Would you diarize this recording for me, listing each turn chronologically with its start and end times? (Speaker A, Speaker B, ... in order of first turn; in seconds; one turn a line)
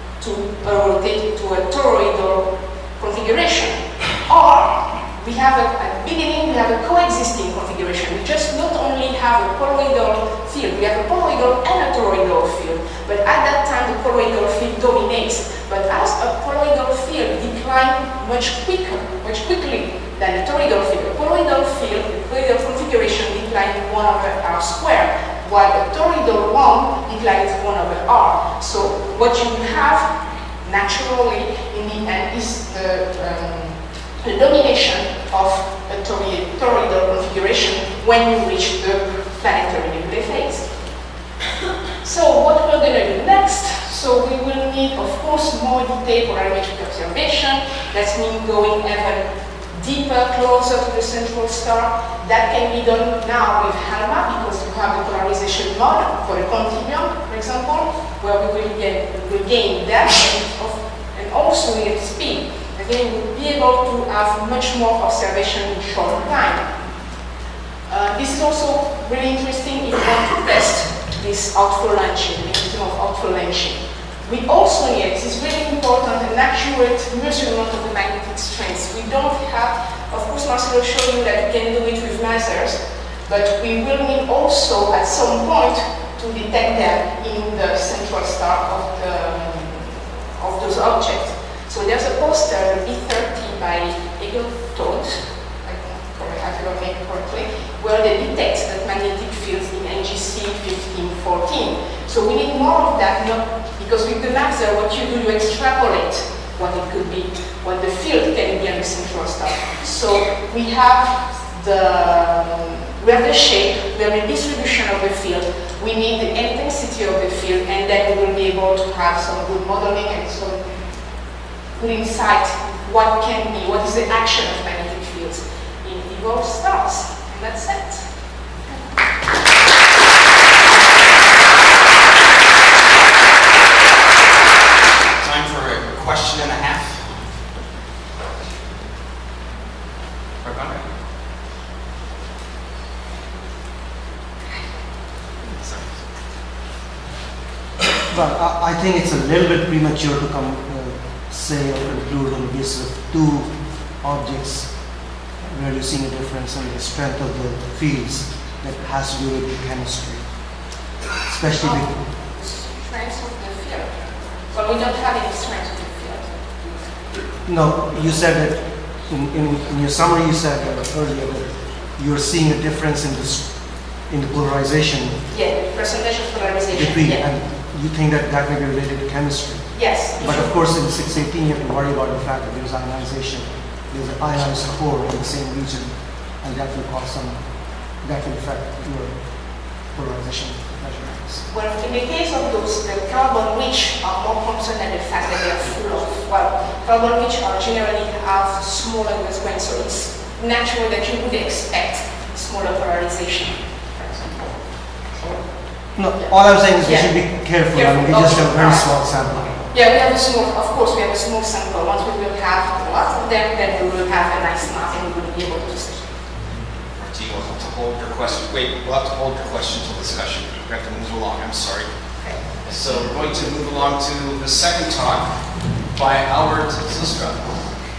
Speaker A: 0.2-30.1
Speaker A: 30.6-40.7
Speaker A: 42.0-66.7
Speaker A: 67.9-120.6
Speaker A: 121.8-128.1
Speaker B: 135.2-137.1
Speaker B: 140.4-140.8
Speaker B: 145.4-146.0
Speaker C: 148.1-160.6
Speaker C: 161.2-161.9
Speaker A: 161.6-163.9
Speaker A: 164.5-166.9
Speaker C: 167.4-175.2
Speaker A: 175.3-177.3
Speaker C: 176.7-191.4
Speaker A: 179.7-180.5
Speaker A: 191.5-204.4
Speaker C: 205.9-209.6
Speaker A: 206.2-208.9
Speaker A: 209.7-216.1
Speaker B: 216.9-221.9
Speaker B: 222.6-227.5